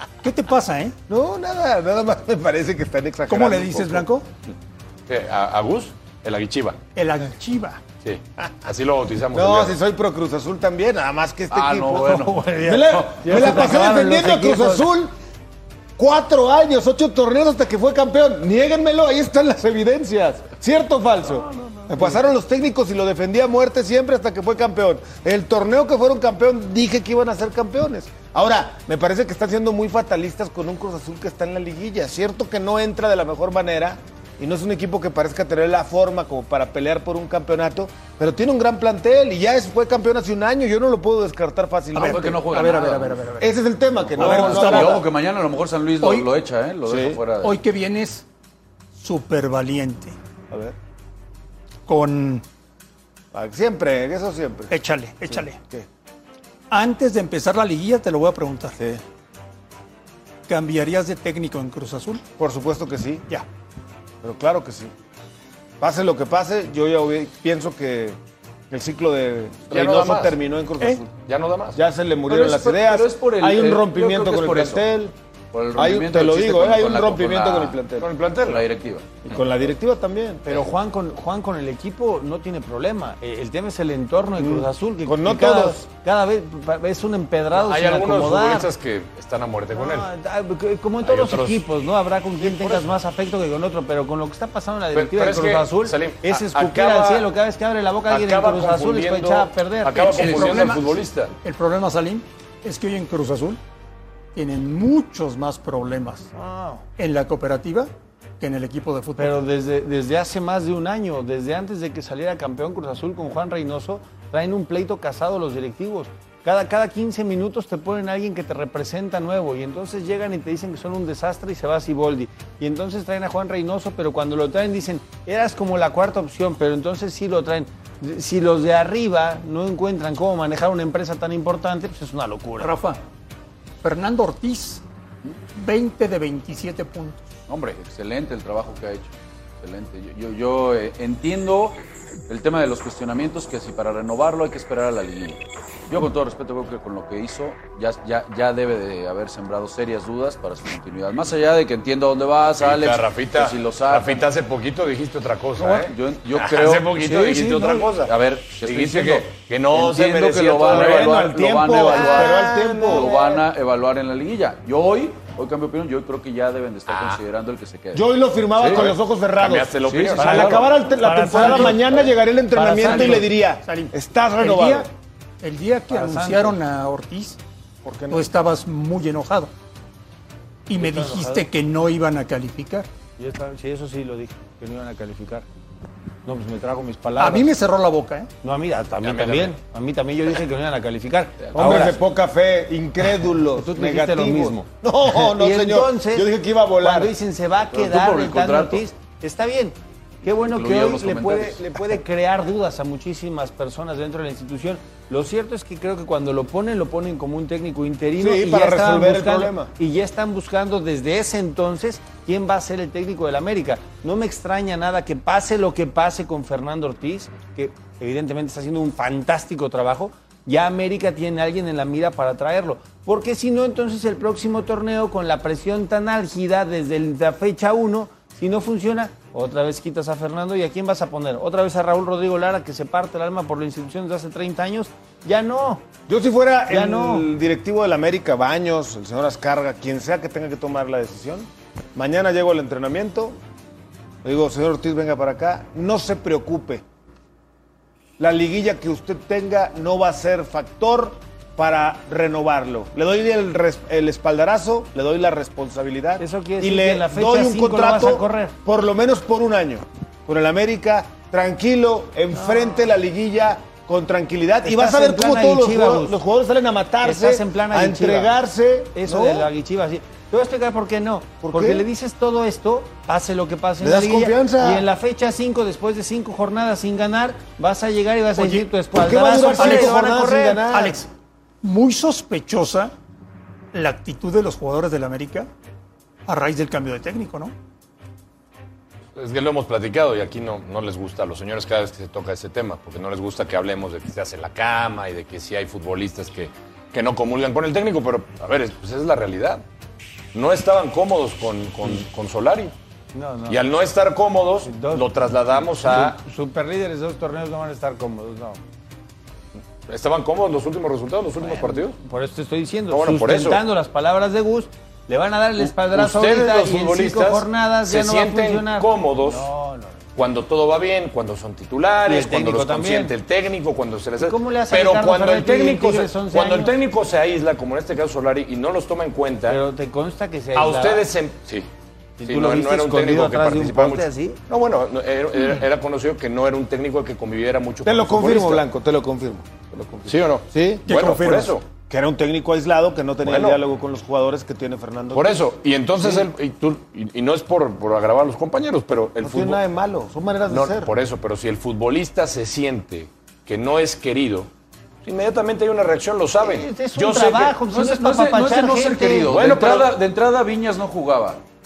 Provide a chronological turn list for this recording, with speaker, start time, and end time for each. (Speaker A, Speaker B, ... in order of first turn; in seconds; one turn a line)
Speaker A: 0.2-0.9
Speaker B: 1.1-4.1
Speaker A: 3.3-4.2
Speaker C: 5.1-6.8
Speaker A: 7.0-7.8
Speaker C: 8.0-9.8
Speaker B: 9.3-15.1
Speaker D: 11.5-13.1
Speaker E: 12.1-14.9
Speaker B: 16.0-42.4
Speaker E: 21.5-22.2
Speaker A: 42.0-43.5
Speaker D: 42.0-43.2
Speaker B: 43.4-45.0
Speaker A: 44.1-45.0
Speaker D: 44.1-47.6
Speaker A: 46.0-46.3
Speaker B: 46.9-47.2
Speaker A: 47.4-48.2
Speaker A: 49.0-50.1
Speaker A: 51.9-52.4
Speaker B: 53.3-54.7
Speaker A: 54.7-55.6
Speaker B: 55.3-55.9
Speaker A: 56.7-58.8
Speaker A: 60.5-62.2
Speaker B: 62.4-63.2
Speaker B: 64.2-64.9
Speaker B: 65.8-68.2
Speaker B: 68.7-71.0
Speaker C: 69.7-70.4
Speaker C: 71.2-71.8
Speaker B: 71.7-75.1
Speaker D: 72.3-74.9
Speaker D: 75.5-77.8
Speaker B: 75.8-78.1
Speaker C: 78.0-78.6
Speaker D: 78.5-79.1
Speaker B: 79.2-80.6
Speaker E: 80.5-88.7
Speaker B: 84.4-85.8
Speaker C: 87.5-90.1
Speaker E: 89.8-100.5
Speaker C: 91.0-91.6
Speaker C: 92.4-92.8
Speaker C: 94.9-97.3
Speaker C: 98.1-101.3
Speaker A: 100.1-103.6
Speaker A: 104.3-106.2
Speaker E: 106.3-106.8
Speaker A: 107.0-109.4
Speaker E: 109.2-132.7
Speaker A: 132.6-133.0
Speaker A: 133.8-134.8
Speaker A: 135.5-137.3
Speaker D: 137.5-154.2
Speaker C: 152.6-161.2
Speaker D: 155.6-168.9
Speaker B: 160.6-163.4
Speaker E: 161.9-163.0
Speaker C: 166.9-167.2
Speaker B: 167.9-174.9
Speaker C: 168.6-170.7
Speaker D: 169.9-170.6
Speaker E: 170.2-173.2
Speaker A: 171.3-171.7
Speaker A: 172.8-174.9
Speaker A: 175.4-177.4
Speaker E: 175.9-176.6
Speaker B: 177.8-178.3
Speaker A: 178.1-179.5
Speaker A: 180.7-182.9
Speaker E: 180.8-181.5
Speaker E: 183.2-185.5
Speaker E: 186.2-187.5
Speaker A: 187.2-188.3
Speaker E: 188.4-192.0
Speaker C: 189.0-189.6
Speaker B: 191.5-197.1
Speaker E: 193.5-196.3
Speaker E: 196.8-235.9
Speaker D: 197.7-198.8
Speaker D: 200.3-201.7
Speaker B: 208.2-209.7
Speaker B: 236.1-243.4
Speaker E: 236.7-237.3
Speaker B: 244.2-246.8
Speaker B: 248.2-269.5
Speaker E: 256.2-258.5
Speaker E: 262.3-262.9
Speaker E: 264.6-266.1
Speaker E: 267.0-268.3
Speaker E: 268.9-280.6
Speaker B: 271.4-271.9
Speaker B: 273.8-274.9
Speaker A: 278.4-278.7
Speaker B: 278.9-281.0
Speaker A: 279.5-280.0
Speaker A: 280.6-281.1
Speaker A: 281.6-282.9
Speaker A: 283.7-285.5
Speaker A: 286.2-287.5
Speaker C: 289.1-299.6
Speaker C: 300.3-302.7
Speaker E: 303.1-303.6
Speaker C: 303.5-306.2
Speaker E: 304.6-305.1
Speaker E: 305.6-308.6
Speaker C: 309.9-312.0
Speaker E: 311.4-320.0
Speaker C: 312.9-313.6
Speaker C: 315.6-319.5
Speaker C: 320.1-329.6
Speaker E: 322.1-323.1
Speaker E: 324.2-326.8
Speaker E: 329.5-331.1
Speaker C: 330.5-331.7
Speaker E: 332.2-334.4
Speaker C: 332.2-338.6
Speaker B: 337.9-340.9
Speaker C: 340.1-341.6
Speaker A: 340.9-341.6
Speaker B: 341.9-345.4
Speaker C: 343.2-343.6
Speaker C: 345.1-349.6
Speaker B: 346.0-346.3
Speaker B: 349.2-350.9
Speaker C: 350.5-354.5
Speaker C: 355.0-357.6
Speaker E: 356.4-359.3
Speaker D: 357.7-361.4
Speaker C: 359.3-360.0